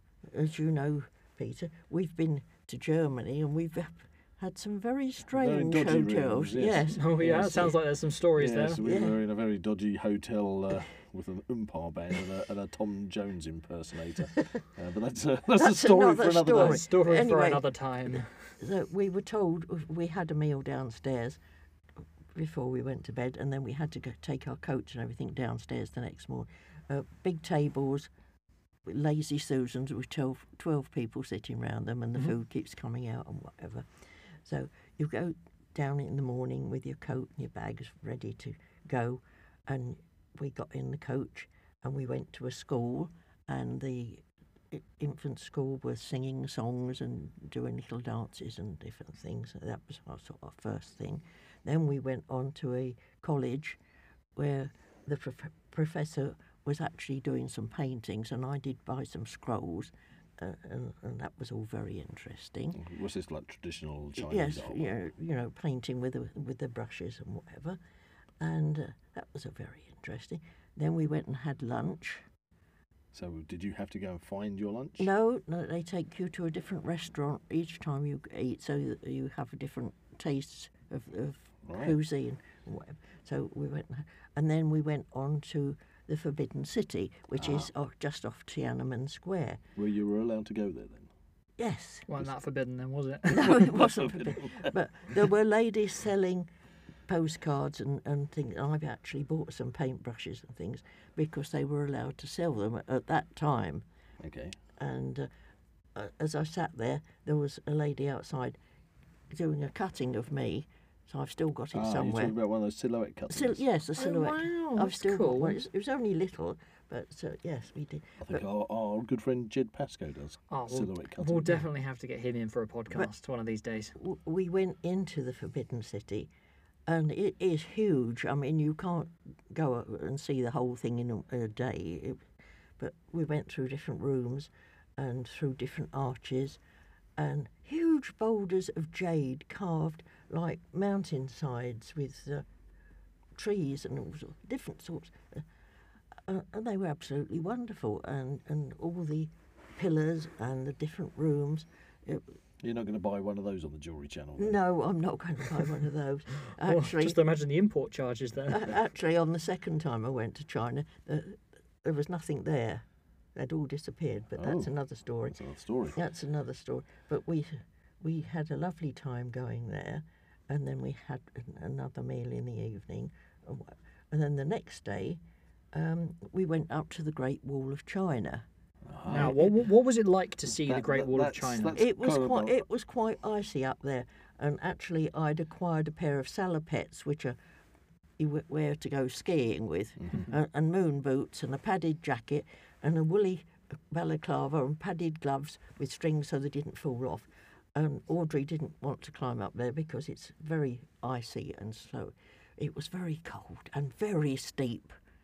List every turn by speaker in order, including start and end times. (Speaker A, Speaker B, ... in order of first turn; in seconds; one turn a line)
Speaker A: 0.2-7.7
Speaker B: 5.3-7.7
Speaker C: 6.9-8.8
Speaker B: 8.3-16.8
Speaker A: 8.8-9.2
Speaker A: 15.5-17.6
Speaker C: 16.5-18.3
Speaker A: 18.6-21.4
Speaker A: 22.3-28.1
Speaker A: 28.8-33.9
Speaker A: 34.4-53.8
Speaker A: 54.4-62.8
Speaker B: 62.7-64.9
Speaker A: 64.2-67.8
Speaker A: 68.4-72.2
Speaker B: 73.1-75.1
Speaker A: 75.0-89.6
Speaker B: 81.7-82.0
Speaker B: 87.4-87.7
Speaker B: 89.8-91.1
Speaker A: 91.6-92.1
Speaker C: 92.1-93.7
Speaker A: 93.3-96.5
Speaker B: 93.5-94.7
Speaker A: 97.1-103.8
Speaker B: 104.2-104.5
Speaker A: 104.8-105.3
Speaker A: 105.9-108.6
Speaker A: 109.3-112.3
Speaker B: 111.7-113.6
Speaker A: 113.3-118.4
Speaker C: 114.0-115.6
Speaker B: 118.2-121.6
Speaker C: 120.5-123.9
Speaker A: 124.0-126.3
Speaker A: 126.8-132.2
Speaker A: 132.8-136.6
Speaker A: 137.2-142.4
Speaker A: 143.3-145.4
Speaker A: 146.2-152.2
Speaker B: 152.6-154.6
Speaker A: 154.4-157.2
Speaker C: 156.6-158.7
Speaker A: 158.5-175.2
Speaker B: 164.4-164.7
Speaker B: 165.2-166.0
Speaker A: 175.7-178.4
Speaker B: 178.9-179.5
Speaker C: 179.1-181.8
Speaker B: 180.5-182.6
Speaker A: 181.7-187.4
Speaker A: 188.2-204.9
Speaker B: 190.0-190.3